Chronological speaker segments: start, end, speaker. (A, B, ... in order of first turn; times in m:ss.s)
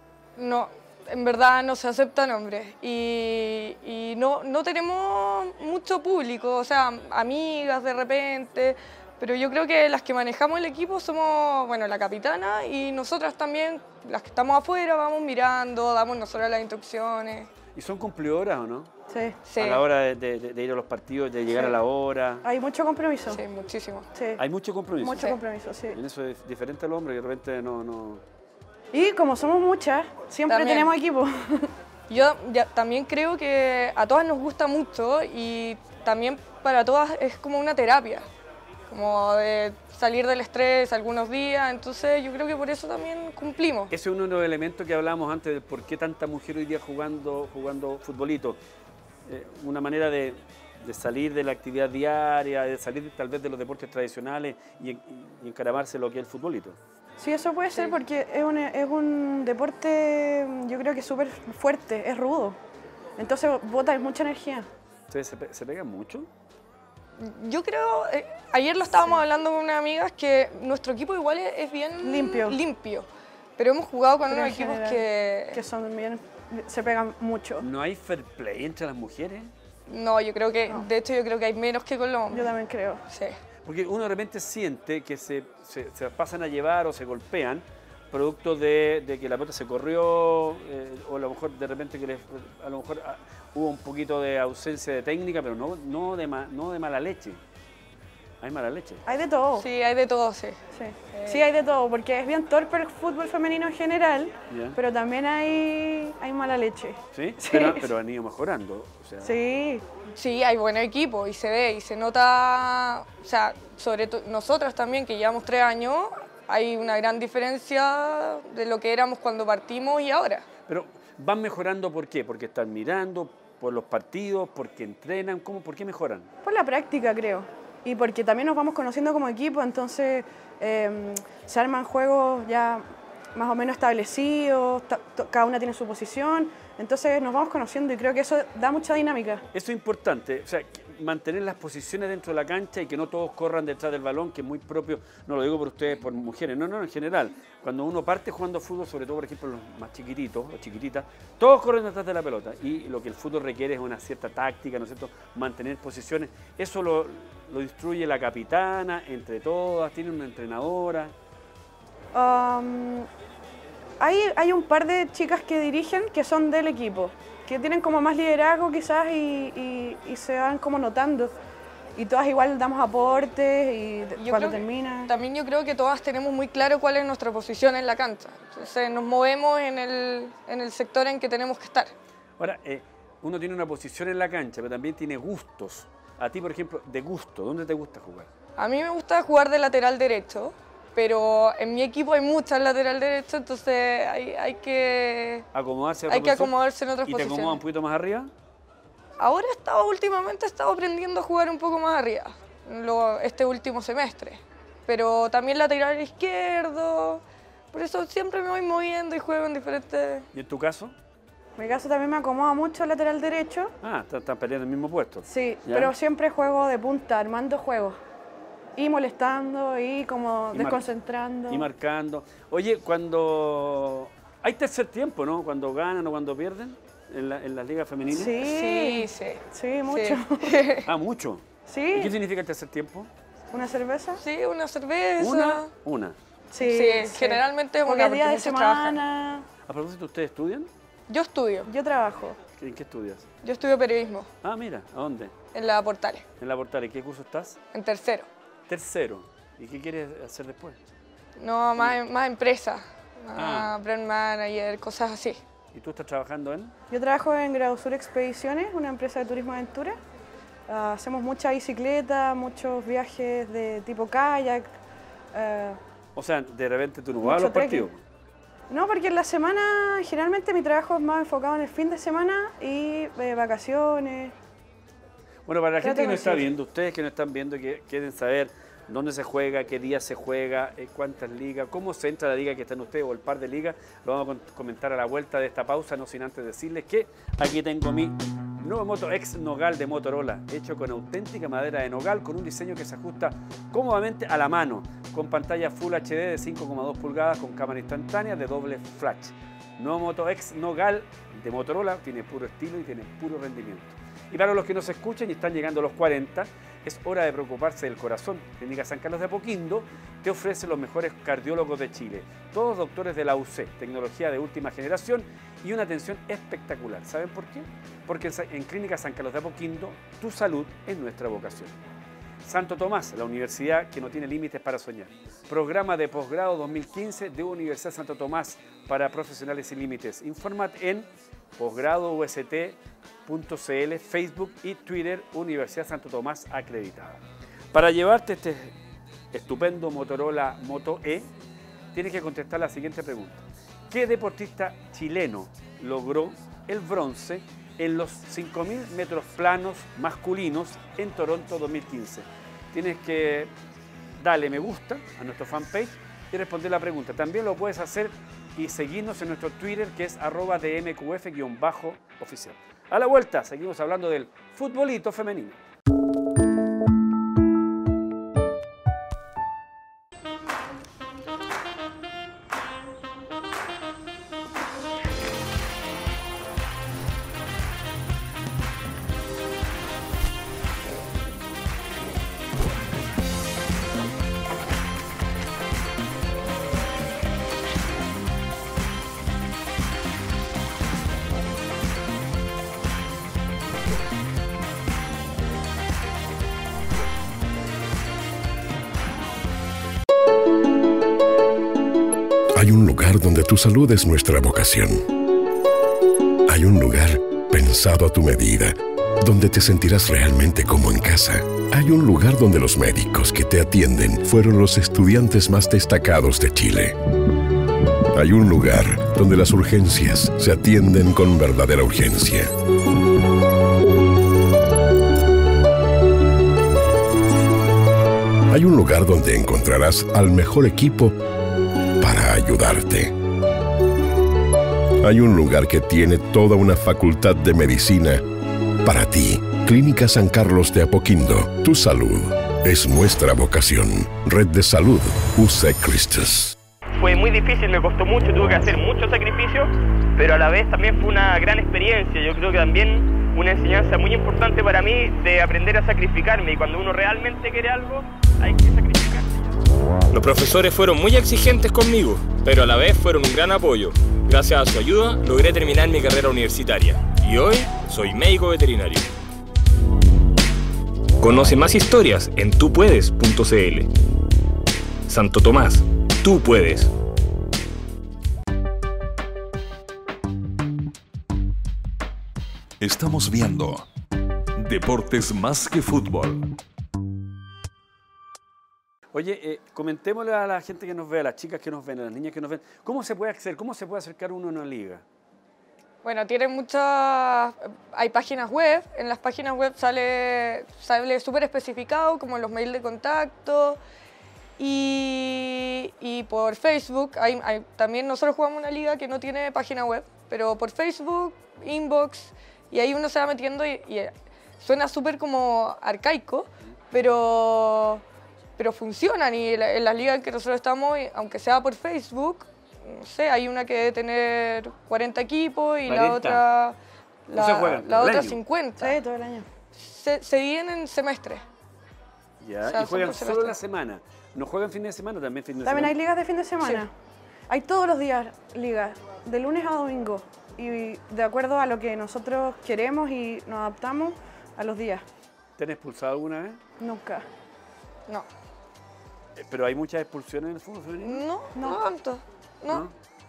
0:00.4-0:17.5 A
0:17.8-0:18.9 B
0:19.1-0:19.4 C
0:19.5-0:19.8 A
0:19.6-0:22.5 B
0:22.4-0:23.4 C
0:23.3-0:24.1 A
0:24.2-0:24.4 C
0:24.4-0:25.4 B
0:25.0-0:26.0 C
0:25.9-0:28.2 B
0:28.9-0:31.7 C
0:30.5-0:30.9 A
0:32.1-0:38.3 A
0:38.9-0:43.9 A
0:43.9-0:48.6 B
0:49.3-0:56.8 B
0:57.2-1:02.6 C
1:03.2-1:04.7 C
1:05.1-1:06.3 B
1:07.2-1:13.1 A
1:12.0-1:12.6 C
1:13.6-1:15.6 A
1:14.3-1:15.0 C
1:15.5-1:17.7 C
1:17.6-1:19.5 B
1:19.9-1:22.5 A
1:22.3-1:23.0 C
1:23.1-1:23.4 A
1:23.6-1:37.4 B
1:38.4-1:39.0 B
1:39.1-1:39.7 C
1:39.6-1:40.6 A
1:40.7-1:47.8 C
1:41.1-1:41.5 A
1:44.5-1:44.8 B
1:47.1-1:49.4 B
1:49.2-1:49.8 C
1:50.1-2:00.4 A
2:00.7-2:06.3 B
2:06.4-2:19.4 C
2:19.5-2:41.1 B
2:42.1-2:43.1 C
2:44.0-2:51.3 C
2:52.0-2:55.1 C
2:54.2-3:01.9 A
3:02.4-3:08.3 B
3:08.6-3:15.5 A
3:15.5-3:16.5 B
3:16.1-3:17.6 A
3:17.1-3:18.3 B
3:19.2-3:30.3 A
3:30.3-3:31.0 B
3:31.6-3:33.7 C
3:33.8-3:35.9 B
3:35.3-3:38.0 C
3:38.8-3:41.7 C
3:40.5-3:40.8 B
3:41.5-3:48.4 B
3:48.1-3:50.6 C
3:48.4-3:50.9 A
3:50.9-3:53.1 B
3:51.7-3:52.1 C
3:53.5-3:54.2 C
3:54.2-3:55.7 A
3:55.2-3:56.2 B
3:56.5-3:59.5 C
3:56.6-3:59.0 A
3:59.7-4:00.7 B
4:01.1-4:01.7 A
4:01.7-4:02.4 C
4:02.6-4:03.2 B
4:03.4-4:04.3 A
4:04.4-4:05.3 B
4:05.5-4:06.2 A
4:06.4-4:07.6 B
4:07.7-4:08.3 A
4:08.7-4:10.8 B
4:11.4-4:15.4 A
4:13.4-4:13.7 B
4:15.7-4:16.7 B
4:16.9-4:20.0 C
4:20.7-4:24.7 C
4:25.3-4:25.8 C
4:26.2-4:28.0 B
4:27.2-4:27.9 C
4:28.7-4:34.4 C
4:35.5-5:21.8 B
4:35.8-4:36.4 C
5:22.4-5:37.2 B
5:37.7-5:38.8 B
5:39.3-5:41.3 B
5:41.9-5:53.5 B
5:54.2-6:05.6 B
6:42.6-6:45.1 D
6:46.5-6:57.0 D
6:58.1-7:02.5 D
7:08.5-7:11.2 D
7:12.0-7:13.1 D
7:15.0-7:18.2 D
7:18.8-7:26.6 D
7:27.0-7:39.6 E
7:40.1-7:49.1 F
7:51.2-7:53.9 F
7:55.1-7:56.9 F
8:02.8-8:03.9 G
8:04.6-8:06.4 G
8:09.1-8:15.0 B
8:16.0-8:23.8 A
8:24.6-8:38.0 A
8:38.6-8:46.8 A
8:45.9-8:46.4 B
8:47.3-8:49.0 A
8:47.3-8:48.4 B
8:48.8-8:49.5 C
8:49.7-8:51.4 A
8:52.4-8:55.9 B
8:52.6-8:53.6 A
8:55.6-8:56.9 C
8:56.6-8:56.9 A
8:57.5-9:05.0 C
9:05.6-9:06.6 B
9:06.8-9:07.3 C
9:09.4-9:11.2 B
9:11.0-9:12.8 A
9:11.6-9:11.8 C
9:12.7-9:12.9 B